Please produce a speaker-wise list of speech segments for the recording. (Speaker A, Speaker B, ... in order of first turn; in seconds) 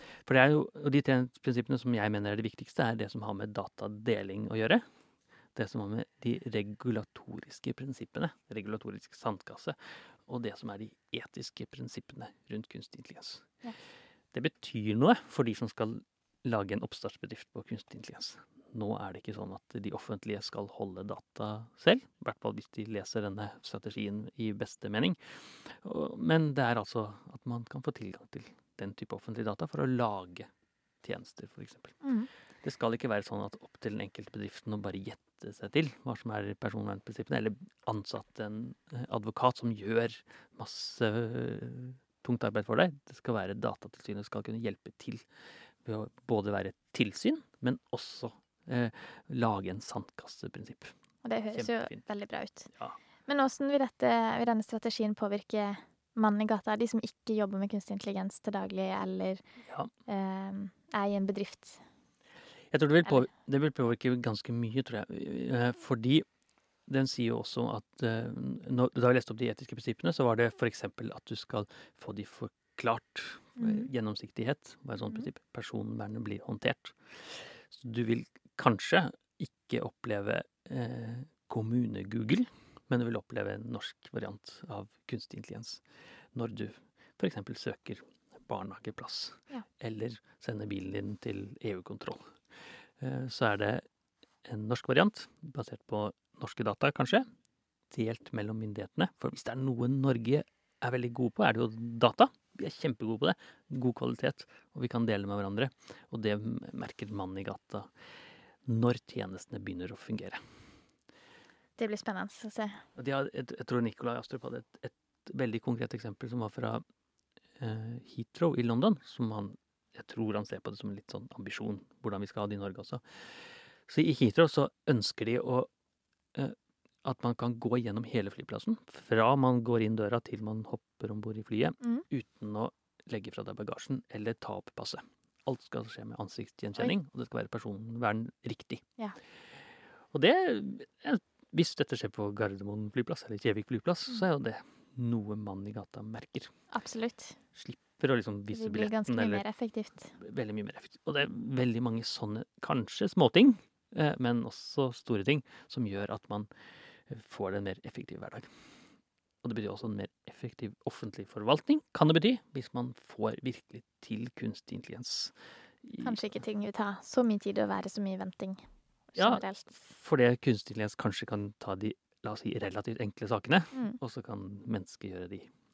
Speaker A: 0.2-4.8, 5.5-13.4, 14.3-30.5, 31.0-32.0, 32.6-45.2, 45.8-50.9, 51.5-52.0, 62.7-66.2, 66.9-85.8, 86.3-92.3, 93.0-93.8, 94.4-97.3, 97.9-107.9, 108.7-110.4, 113.0-116.8, 117.6-123.0, 123.9-125.7, 126.3-138.8, 140.1-146.5, 147.5-149.4, 150.2-156.5, 157.1-158.5, 159.4-166.4, 169.2-175.5
Speaker B: 32.0-32.3, 51.2-52.7, 53.3-59.4, 60.1-61.8, 73.6-73.9, 111.8-112.8, 146.7-147.4, 148.5-150.1, 166.0-169.8